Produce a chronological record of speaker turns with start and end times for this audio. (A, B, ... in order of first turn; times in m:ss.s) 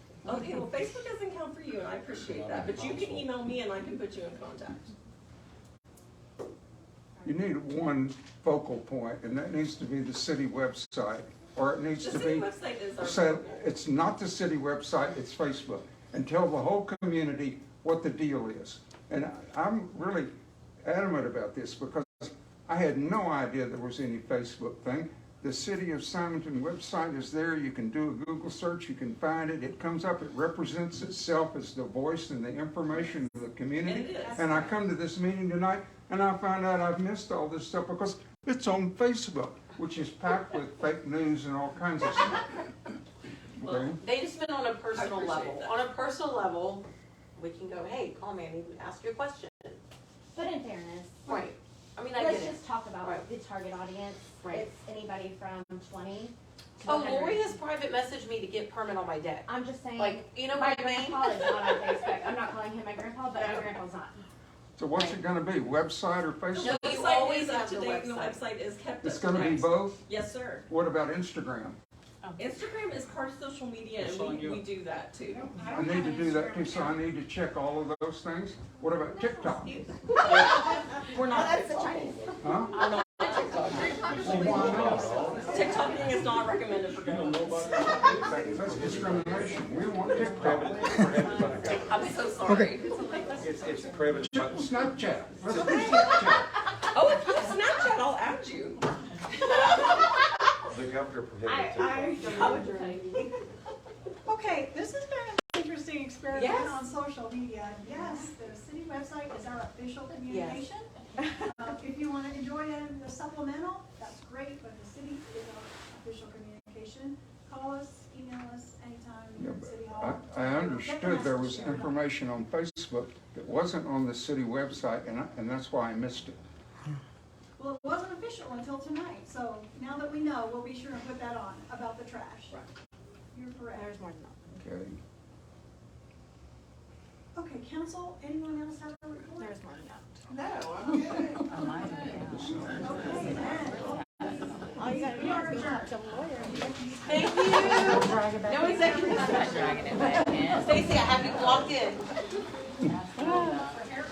0:00.2-0:04.9 A
0:02.2-0:03.3 B
0:07.2-0:12.5 C
0:12.0-0:13.6 A
0:13.0-0:20.3 C
0:20.8-0:42.9 C
0:33.8-0:34.6 A
0:34.1-0:34.8 D
0:43.6-0:44.0 C
0:43.7-0:49.8 E
0:44.9-0:45.8 A
0:50.3-0:51.5 F
0:51.2-0:53.3 E
0:52.1-0:57.5 F
0:54.4-0:54.7 E
0:56.8-1:02.1 E
0:59.4-1:04.1 F
1:03.3-1:03.7 E
1:04.8-1:07.0 C
1:06.5-1:10.7 A
1:06.6-1:08.4 E
1:09.0-1:10.1 C
1:10.7-1:11.8 C
1:12.4-1:15.5 A
1:15.4-1:16.9 F
1:15.7-1:19.8 C
1:19.1-1:20.3 E
1:20.2-1:22.1 A
1:21.4-1:22.2 F
1:22.4-1:22.8 C
1:22.7-1:28.0 A
1:24.1-1:25.7 D
1:24.2-1:25.2 C
1:24.4-1:25.6 B
1:27.8-1:29.6 B
1:28.3-1:31.4 C
1:30.3-1:32.1 B
1:31.8-1:33.3 A
1:33.4-1:34.8 B
1:34.2-1:36.6 C
1:35.6-1:36.0 B
1:36.7-1:40.1 A
1:40.7-1:42.2 B
1:41.4-1:43.3 F
1:42.3-1:42.8 E
1:44.2-2:01.9 D
1:46.3-1:46.8 E
1:50.3-1:50.6 E
1:59.4-2:06.4 C
2:07.6-2:12.6 D
2:13.3-2:13.9 D
2:13.7-2:14.5 F
2:14.5-2:15.0 C
2:17.3-2:19.6 D
2:19.4-2:20.2 F
2:20.3-2:21.4 E
2:22.3-2:22.9 C
2:22.8-2:27.8 D
2:24.8-2:26.4 F
2:27.0-2:29.9 E
2:27.4-2:30.9 F
2:30.5-2:32.0 E
2:33.2-2:33.6 F